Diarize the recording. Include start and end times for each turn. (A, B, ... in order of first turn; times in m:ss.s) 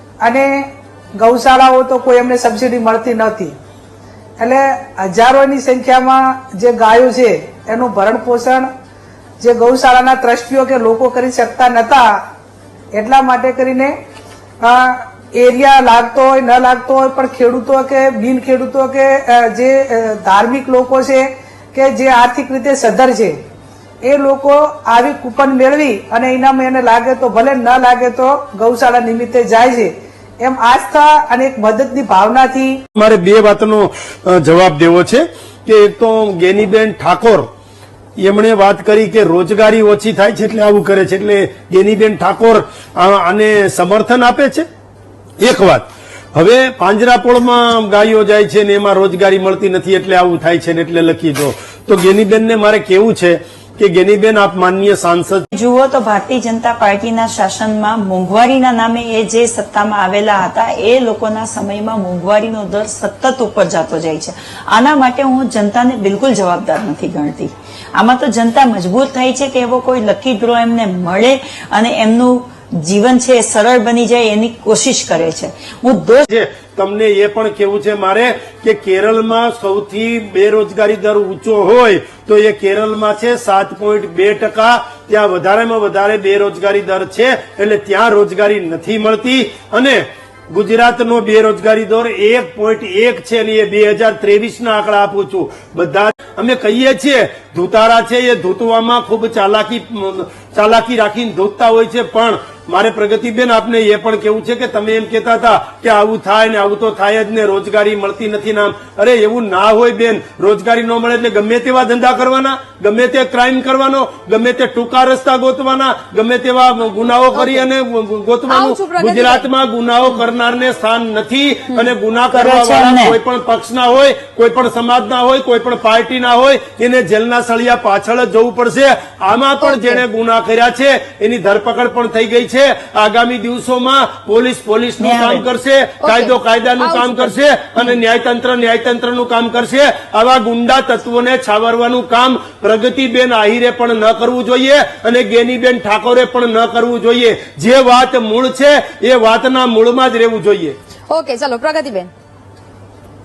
0:00.2-0:00.6 A
0:01.2-0:03.5 A
0:04.4-0:08.7 A
0:09.4-0:12.2 A
0:13.0-0:14.0 A
0:14.6-0:23.4 A
0:24.0-0:32.8 A
0:33.0-0:37.5 B
0:38.2-0:44.6 B
0:45.4-0:55.4 B
0:55.5-1:16.3 C
1:16.3-2:30.8 B
1:57.4-1:57.7 D
1:58.5-1:59.5 D
2:02.3-2:03.2 C
2:09.6-2:10.0 D
2:15.0-2:15.5 C
2:16.0-2:17.3 D
2:31.1-2:32.1 D